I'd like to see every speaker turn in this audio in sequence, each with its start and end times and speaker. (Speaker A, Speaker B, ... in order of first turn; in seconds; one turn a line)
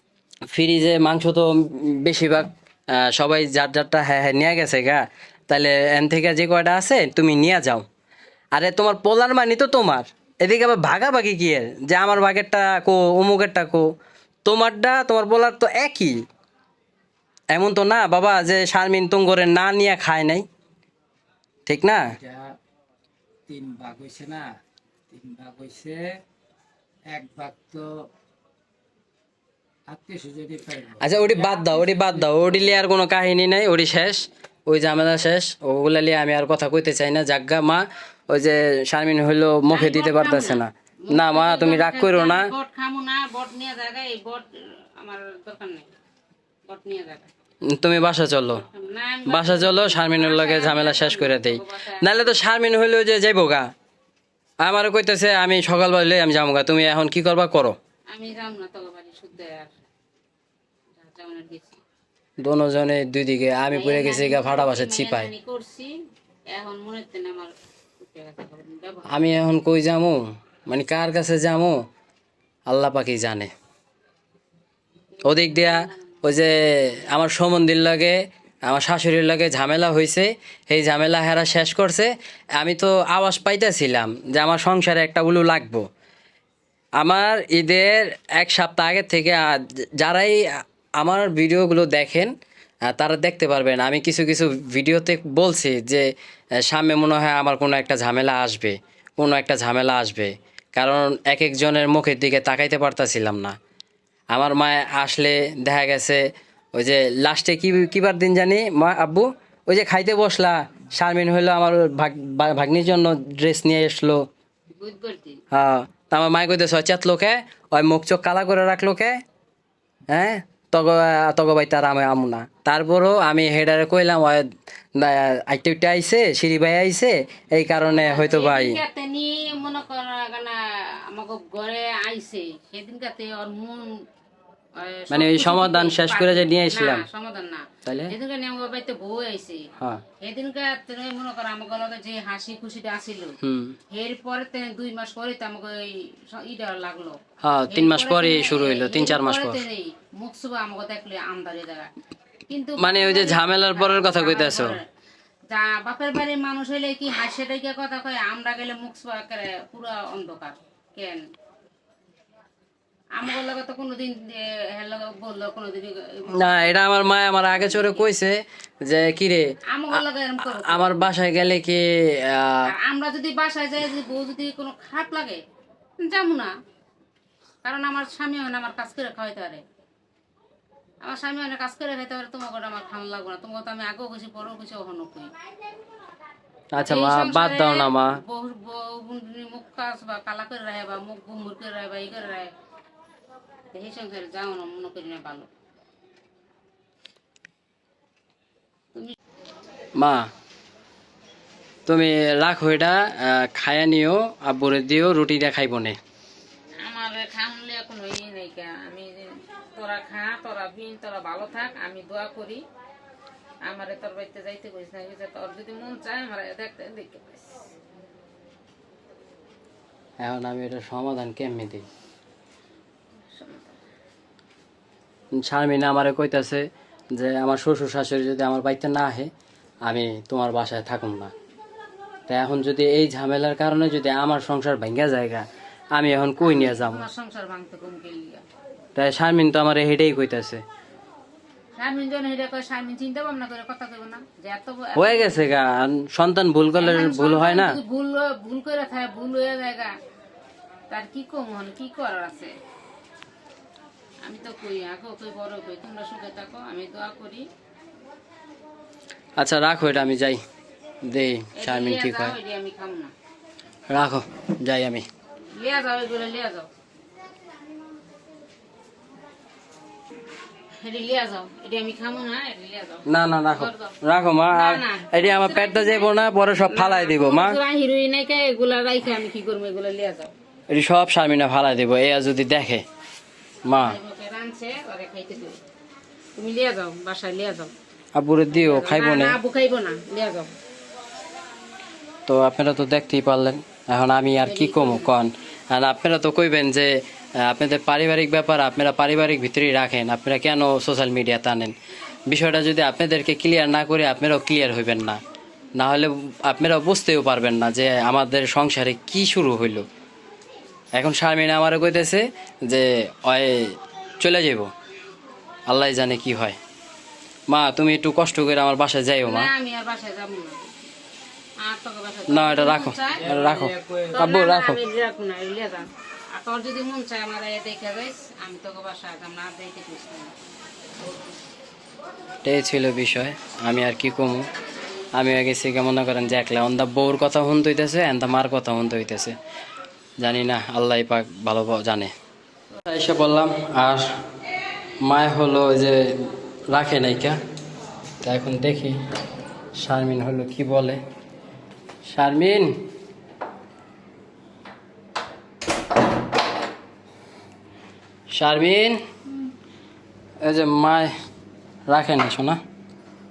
Speaker A: 0.5-7.8
Speaker A: 8.5-13.9
Speaker A: 14.4-16.1
Speaker A: 17.5-20.4
Speaker A: 21.7-22.1
Speaker B: 22.2-22.6
Speaker B: 23.5-24.6
Speaker B: 25.1-26.2
Speaker B: 27.1-28.1
Speaker B: 29.9-32.1
Speaker A: 31.0-42.5
Speaker C: 39.7-45.9
Speaker C: 46.7-47.3
Speaker A: 47.6-48.6
Speaker C: 48.5-52.4
Speaker A: 49.2-53.7
Speaker A: 54.6-57.8
Speaker C: 58.1-59.7
Speaker C: 61.0-61.8
Speaker A: 62.4-65.3
Speaker C: 63.7-65.9
Speaker C: 66.5-69.2
Speaker A: 69.0-71.8
Speaker A: 72.7-73.5
Speaker C: 75.1-76.2
Speaker A: 75.2-85.8
Speaker A: 87.0-90.4
Speaker A: 91.0-92.3
Speaker A: 92.9-96.1
Speaker A: 96.6-103.5
Speaker A: 104.3-106.2
Speaker A: 106.7-114.2
Speaker C: 114.7-115.4
Speaker A: 115.5-119.2
Speaker A: 120.1-124.5
Speaker A: 125.0-128.8
Speaker C: 127.9-130.6
Speaker C: 131.1-134.0
Speaker C: 134.8-139.7
Speaker A: 135.1-137.1
Speaker A: 137.8-138.1
Speaker A: 139.8-140.0
Speaker C: 140.2-143.4
Speaker A: 143.4-143.8
Speaker C: 143.9-147.2
Speaker A: 147.4-149.6
Speaker C: 147.7-151.9
Speaker C: 152.5-154.8
Speaker A: 152.8-154.8
Speaker C: 155.5-161.2
Speaker C: 163.1-166.8
Speaker A: 166.3-172.7
Speaker C: 167.5-168.1
Speaker C: 169.7-171.1
Speaker C: 172.7-175.4
Speaker C: 176.0-176.6
Speaker C: 177.6-179.6
Speaker C: 181.0-185.3
Speaker A: 186.7-188.2
Speaker C: 186.8-192.5
Speaker C: 193.7-195.5
Speaker A: 200.0-200.3
Speaker A: 201.8-206.0
Speaker C: 206.8-212.6
Speaker C: 213.6-217.7
Speaker A: 220.2-221.9
Speaker C: 223.3-223.8
Speaker A: 225.3-229.3
Speaker A: 229.8-231.3
Speaker A: 232.3-237.0
Speaker C: 236.4-238.4
Speaker A: 238.9-240.6
Speaker C: 241.8-245.5
Speaker A: 244.9-247.8
Speaker C: 246.8-249.9
Speaker C: 250.9-252.5
Speaker C: 254.2-257.4
Speaker A: 259.4-260.4
Speaker A: 261.0-262.4
Speaker C: 261.6-263.1
Speaker A: 263.9-265.0
Speaker C: 265.5-266.7
Speaker C: 270.8-273.9
Speaker A: 273.1-277.6
Speaker C: 274.5-280.3
Speaker A: 280.7-282.8
Speaker A: 283.7-284.0
Speaker C: 283.8-285.6
Speaker C: 286.4-287.7
Speaker A: 288.1-289.4
Speaker C: 288.5-290.5
Speaker A: 292.3-301.7
Speaker C: 294.4-295.1
Speaker A: 302.3-305.2
Speaker A: 305.8-309.9
Speaker A: 310.9-314.7
Speaker A: 315.7-316.6
Speaker A: 317.5-319.5
Speaker C: 319.2-320.7
Speaker C: 321.6-323.4
Speaker A: 322.3-324.8
Speaker B: 323.3-324.2
Speaker C: 324.1-330.3
Speaker A: 332.4-334.5
Speaker A: 335.1-339.4
Speaker A: 340.2-342.1
Speaker A: 342.8-344.1
Speaker A: 345.0-347.4
Speaker A: 348.2-349.0
Speaker A: 349.8-351.0
Speaker A: 352.1-352.8
Speaker A: 358.3-359.0
Speaker A: 360.4-361.1
Speaker A: 361.9-362.6